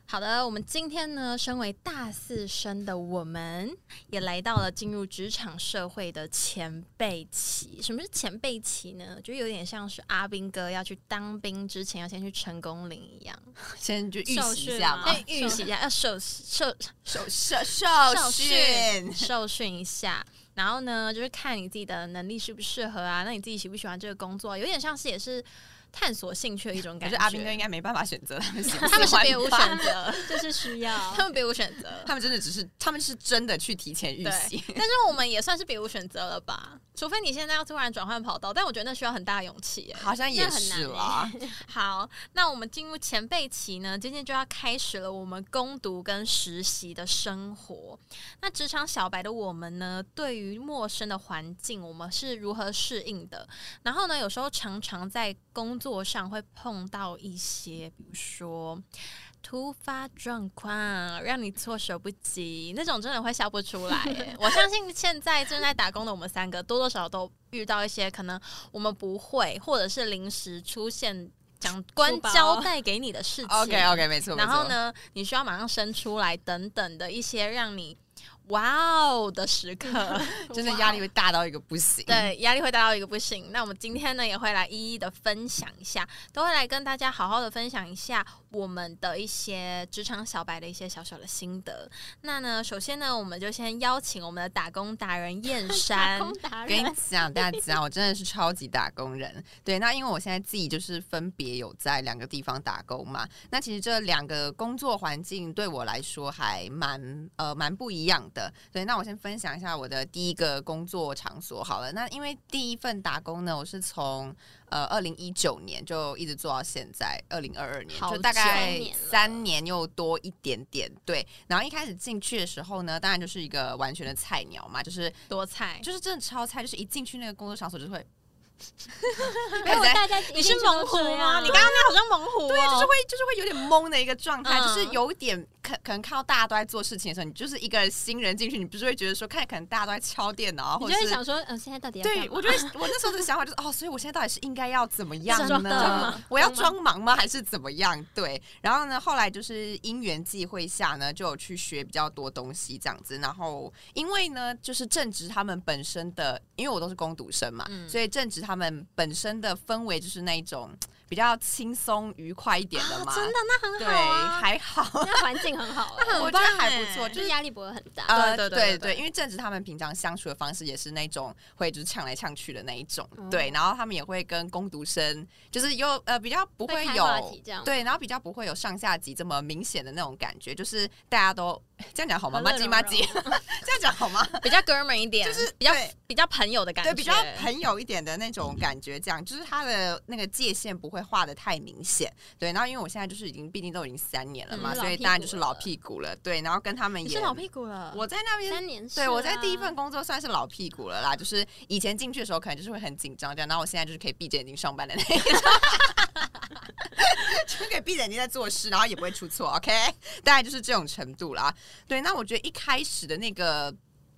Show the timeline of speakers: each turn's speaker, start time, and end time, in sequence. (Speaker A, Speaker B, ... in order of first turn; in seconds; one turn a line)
Speaker A: 0.1-13.5
Speaker B: 13.8-15.2
Speaker C: 14.3-15.7
Speaker A: 15.0-17.3
Speaker B: 17.1-19.3
Speaker A: 18.1-27.6
Speaker B: 27.0-29.8
Speaker C: 28.8-31.2
Speaker A: 28.8-32.1
Speaker B: 32.0-34.8
Speaker A: 34.2-40.1
Speaker B: 40.0-41.3
Speaker C: 40.2-41.6
Speaker A: 41.6-58.8
Speaker A: 59.4-80.8
Speaker C: 72.0-72.7
Speaker B: 73.5-74.8
Speaker C: 80.1-81.0
Speaker B: 80.5-82.3
Speaker A: 82.1-96.4
Speaker C: 95.7-97.6
Speaker B: 96.7-125.2
Speaker A: 117.9-118.8
Speaker C: 118.4-119.4
Speaker A: 125.3-125.9
Speaker B: 125.8-128.1
Speaker A: 129.5-132.9
Speaker C: 129.5-131.7
Speaker B: 129.6-130.1
Speaker B: 131.4-131.9
Speaker B: 132.4-141.2
Speaker A: 134.4-135.0
Speaker C: 140.8-142.9
Speaker B: 142.0-165.5
Speaker A: 145.3-146.2
Speaker C: 145.4-146.7
Speaker A: 157.7-158.0
Speaker A: 162.8-164.5
Speaker C: 165.0-166.3
Speaker A: 166.0-167.2
Speaker B: 166.1-167.3
Speaker C: 167.1-168.2
Speaker B: 168.1-184.6
Speaker A: 168.1-169.0
Speaker C: 173.2-173.6
Speaker C: 176.7-177.8
Speaker C: 182.3-183.4
Speaker A: 184.4-187.5
Speaker B: 185.2-185.9
Speaker B: 186.8-206.3
Speaker A: 194.5-194.8
Speaker C: 194.5-195.7
Speaker A: 197.0-198.0
Speaker C: 198.5-199.8
Speaker B: 206.8-213.8